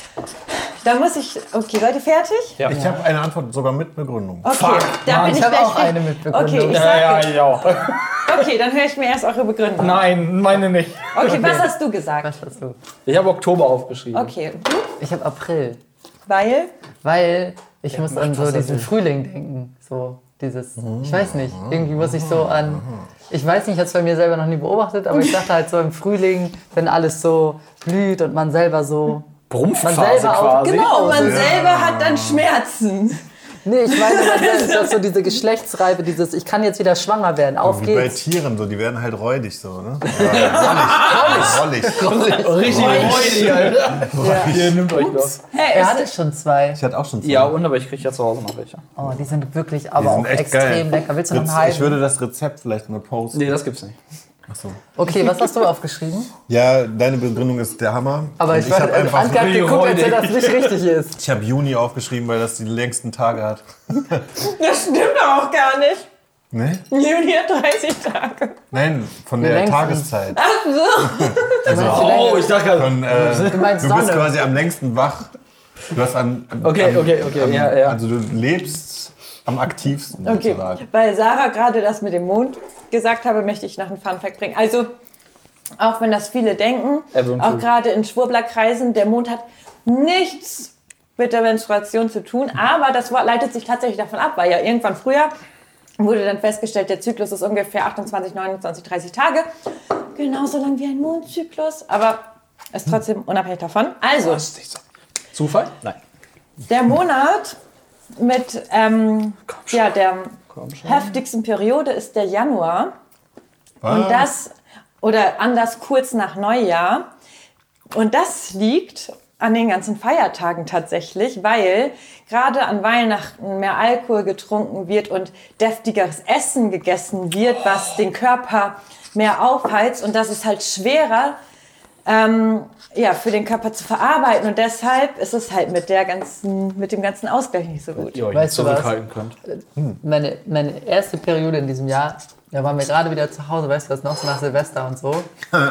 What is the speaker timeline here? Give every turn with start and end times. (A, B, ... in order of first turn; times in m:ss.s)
0:00.6-0:02.6 A
0:02.7-0:04.6 B
0:02.7-0:03.0 C
0:04.4-0:10.2 A
0:04.5-0:05.5 D
0:05.1-0:07.0 C
0:06.7-0:08.4 D
0:09.8-0:11.6 D
0:11.1-0:12.3 A
0:11.2-0:11.7 C
0:12.2-0:12.8 C
0:13.1-0:14.3 D
0:14.1-0:14.9 A
0:15.0-0:15.8 C
0:16.3-0:16.7 A
0:17.0-0:29.3 C
0:17.9-0:18.9 D
0:20.8-0:23.1 B
0:29.5-0:31.1 D
0:29.8-0:31.6 C
0:30.7-0:33.2 A
0:31.1-0:32.5 B
0:33.6-0:38.2 C
0:33.9-0:34.9 A
0:37.6-0:45.4 B
0:40.1-0:45.4 D
0:40.2-0:43.5 C
0:42.6-0:43.7 A
0:44.2-0:44.6 C
0:45.5-0:46.1 A
0:45.7-0:46.8 C
0:46.8-0:47.6 B
0:47.2-0:48.8 D
0:49.0-0:52.0 C
0:50.0-0:53.6 B
0:53.3-0:54.0 D
0:54.5-0:54.8 B
0:55.0-0:56.3 C
0:56.5-0:59.6 B
0:58.4-1:01.2 C
0:59.3-1:00.8 D
1:01.2-1:04.4 B
1:04.4-1:06.1 A
1:06.5-1:06.8 B
1:06.9-1:08.6 A
1:08.7-1:10.4 B
1:09.4-1:10.2 C
1:10.3-1:11.9 A
1:11.0-1:15.3 B
1:11.7-1:14.4 C
1:11.7-1:13.8 D
1:15.9-1:20.8 B
1:16.6-1:18.0 D
1:20.2-1:24.9 A
1:25.8-1:35.3 A
1:27.1-1:27.7 D
1:36.0-1:39.5 A
1:40.1-1:44.5 A
1:44.2-1:44.8 D
1:45.3-1:46.0 D
1:46.7-1:47.6 A
1:48.1-1:52.9 A
1:49.5-1:49.8 D
1:50.5-1:51.2 D
1:53.8-1:54.3 B
1:53.9-1:57.1 A
1:57.9-2:11.4 A
2:12.0-2:18.2 A
2:18.1-2:19.4 D
2:18.3-2:19.0 C
2:19.5-2:25.3 C